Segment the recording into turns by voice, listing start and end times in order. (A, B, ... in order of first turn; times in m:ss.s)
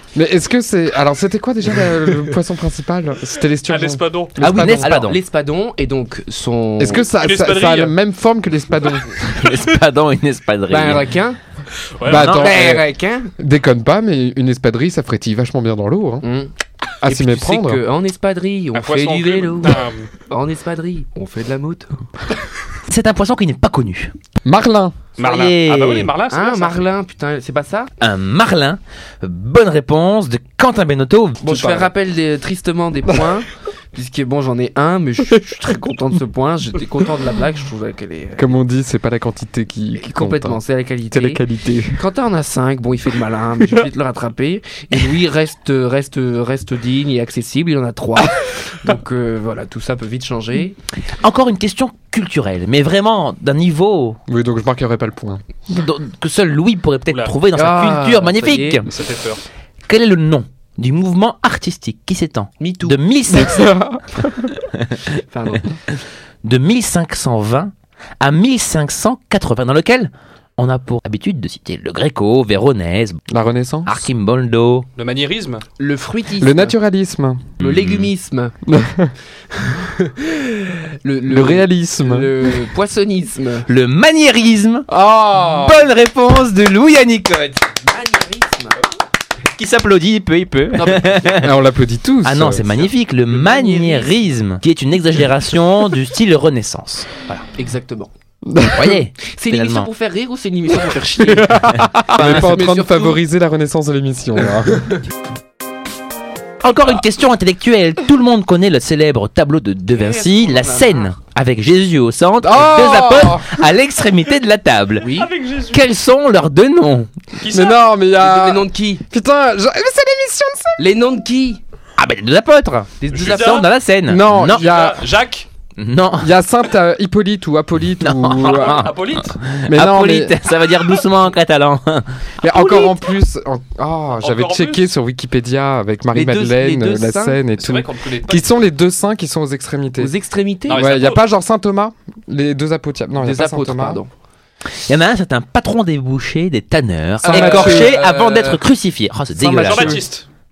0:00.2-0:05.0 A
0:03.7-0:04.4 B
0:04.4-0:05.2 C
0:04.4-0:07.1 D
0:06.8-0:09.5 A
0:07.2-0:08.0 B
0:09.3-0:11.1 C
0:10.7-0:11.4 D
0:12.0-0:12.4 B
0:12.0-0:12.9 A
0:12.1-0:12.5 C
0:12.1-0:13.3 D
0:13.4-0:16.2 A
0:16.2-0:16.5 D
0:17.0-0:17.8 A
0:17.0-0:22.0 D
0:18.7-0:20.1 B
0:22.9-0:24.1 C
0:24.4-0:25.0 A
0:25.2-0:26.8 B
0:25.2-0:26.1 C
0:26.3-0:27.9 D
0:28.0-0:31.4 C
0:31.4-0:38.5 D
0:31.5-0:31.9 A
0:38.4-0:40.6 A
0:40.0-0:41.4 D
0:41.1-0:42.0 A
0:42.0-0:50.8 D
0:51.2-0:54.2 C
0:54.3-0:55.4 A
0:55.7-0:58.9 C
0:57.1-0:57.4 B
0:57.5-0:58.8 D
0:58.9-0:59.4 B
0:59.9-1:03.8 C
1:02.6-1:03.0 D
1:03.3-1:04.6 A
1:04.7-1:05.0 C
1:05.3-1:05.8 D
1:06.4-1:13.2 C
1:13.3-1:14.0 A
1:13.8-1:14.9 C
1:15.0-1:15.6 B
1:15.8-1:16.8 D
1:16.4-1:17.5 A
1:17.6-1:18.1 C
1:17.6-1:18.6 D
1:18.7-1:19.1 A
1:19.8-1:23.7 D
1:21.3-1:22.5 A
1:23.7-1:24.9 C
1:24.9-1:25.8 A
1:25.5-1:27.6 C
1:27.7-1:28.8 D
1:29.6-1:31.6 C
1:30.8-1:31.3 D
1:31.4-1:32.7 A
1:32.2-1:37.4 C
1:33.3-1:34.2 D
1:37.5-1:38.1 D
1:38.5-1:39.0 A
1:38.7-1:39.9 C
1:39.3-1:43.2 D
1:41.2-1:44.9 A
1:42.1-1:42.6 C
1:46.6-1:55.1 C
1:49.9-1:51.1 D
1:52.4-1:53.6 A
1:55.0-1:55.3 D
1:55.0-1:55.9 B
1:55.7-1:57.1 C
1:57.4-1:57.9 B
1:57.5-2:00.8 A
1:58.2-1:59.0 D
2:00.8-2:01.6 D
2:02.0-2:04.6 C
2:03.0-2:03.7 D
2:03.1-2:03.7 B
2:04.1-2:05.1 A
2:04.4-2:05.5 B
2:05.8-2:06.3 C
2:06.2-2:08.9 A
2:08.0-2:13.0 C
2:08.4-2:09.4 B
2:09.7-2:10.4 A
2:12.4-2:20.1 A
2:14.2-2:14.9 B
2:16.1-2:17.4 D
2:17.6-2:18.5 B
2:20.0-2:20.9 D
2:20.7-2:21.2 B
2:20.7-2:24.0 A
2:23.2-2:24.1 D
2:24.8-2:30.1 C
2:27.2-2:28.6 D
2:27.2-2:27.9 A
2:29.4-2:30.1 A
2:29.6-2:30.3 B